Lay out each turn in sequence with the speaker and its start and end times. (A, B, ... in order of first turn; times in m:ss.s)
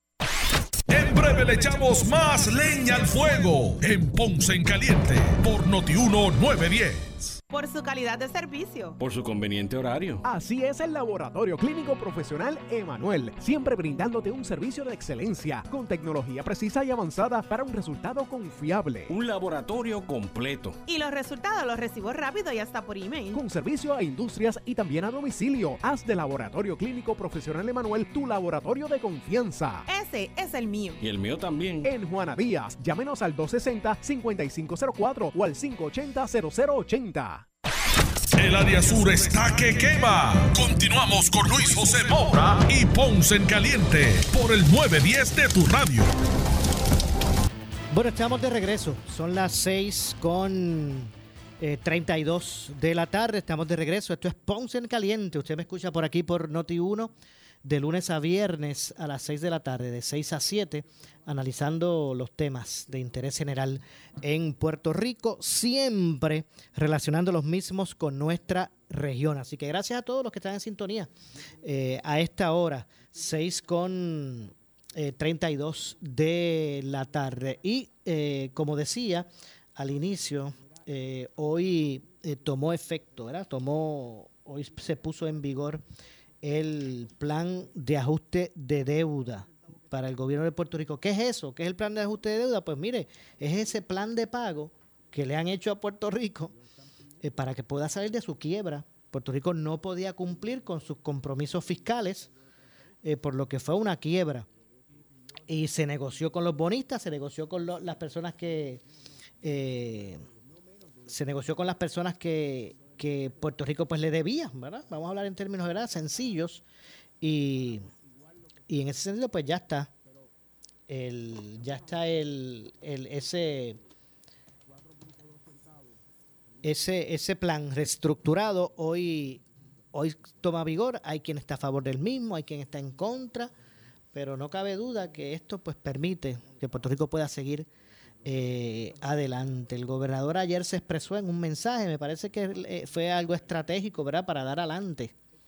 0:00.9-0:07.4 A
0:07.5-0:09.0 B
0:09.0-0:10.2 C
0:10.2-0:19.1 D
0:19.1-0:20.8 C
0:20.8-0:23.4 B
0:23.3-0:29.9 D
0:29.9-0:31.0 B
0:31.0-0:31.9 C
0:31.8-0:37.5 D
0:38.4-0:46.1 A
0:47.9-1:11.1 E
1:11.6-1:25.8 E
1:26.4-1:36.6 E
1:37.2-1:42.3 E
1:43.0-1:44.5 E
1:45.5-1:48.8 E
1:49.4-1:50.2 E
1:51.1-1:56.6 E
1:57.2-1:57.9 E
1:58.7-1:59.9 E
2:00.9-2:03.8 E
2:06.6-2:13.5 E
2:14.1-2:17.7 E
2:18.2-2:25.1 E